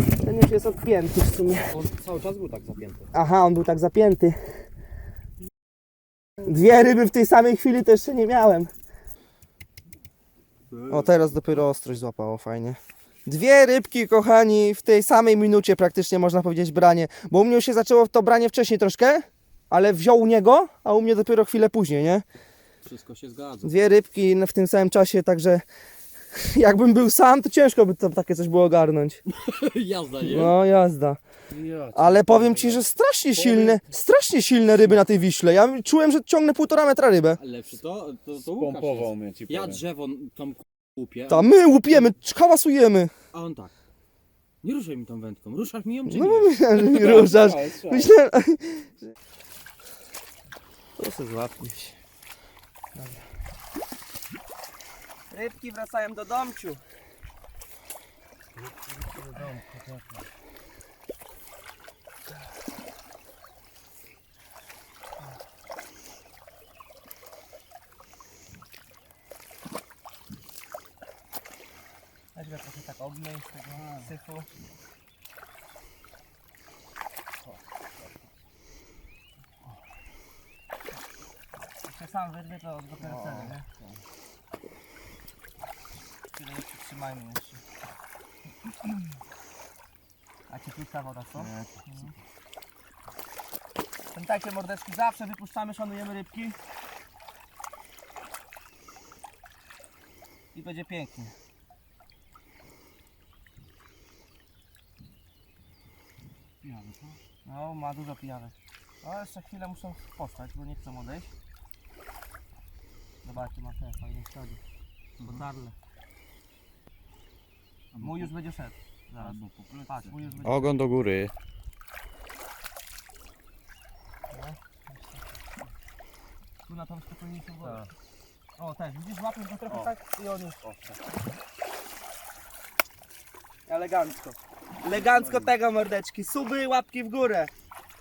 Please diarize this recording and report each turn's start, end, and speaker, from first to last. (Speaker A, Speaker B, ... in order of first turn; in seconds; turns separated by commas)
Speaker A: 0.2-1.7, Speaker B: 1.7-3.1, Speaker A: 3.1-4.4, Speaker A: 6.4-8.7, Speaker B: 10.7-11.3, Speaker A: 10.9-22.2, Speaker B: 22.8-23.8, Speaker A: 23.6-25.6, Speaker A: 26.3-29.2, Speaker B: 29.3-30.6, Speaker A: 30.2-31.2, Speaker C: 31.5-32.8, Speaker A: 31.9-37.4, Speaker B: 33.4-33.9, Speaker B: 37.4-41.5, Speaker C: 38.5-39.8, Speaker A: 41.3-43.1, Speaker B: 43.3-43.7, Speaker B: 44.6-47.2, Speaker A: 46.1-48.9, Speaker C: 46.8-48.1, Speaker A: 51.0-52.0, Speaker A: 53.0-53.2, Speaker A: 55.3-56.8, Speaker B: 58.6-60.3, Speaker A: 72.3-74.5, Speaker B: 73.7-74.1, Speaker B: 77.4-78.2, Speaker A: 81.8-83.7, Speaker B: 83.0-84.0, Speaker A: 86.3-87.6, Speaker A: 90.5-92.1, Speaker B: 91.4-91.8, Speaker A: 94.1-96.6, Speaker A: 100.5-101.3, Speaker B: 106.6-107.2, Speaker A: 107.5-111.3, Speaker A: 113.2-114.6, Speaker B: 115.2-115.5, Speaker A: 115.2-115.8, Speaker B: 118.0-118.3, Speaker A: 118.0-120.8, Speaker B: 119.2-120.4, Speaker C: 120.4-121.3, Speaker A: 124.3-124.6, Speaker A: 126.7-127.9, Speaker A: 128.6-130.6, Speaker A: 133.7-137.5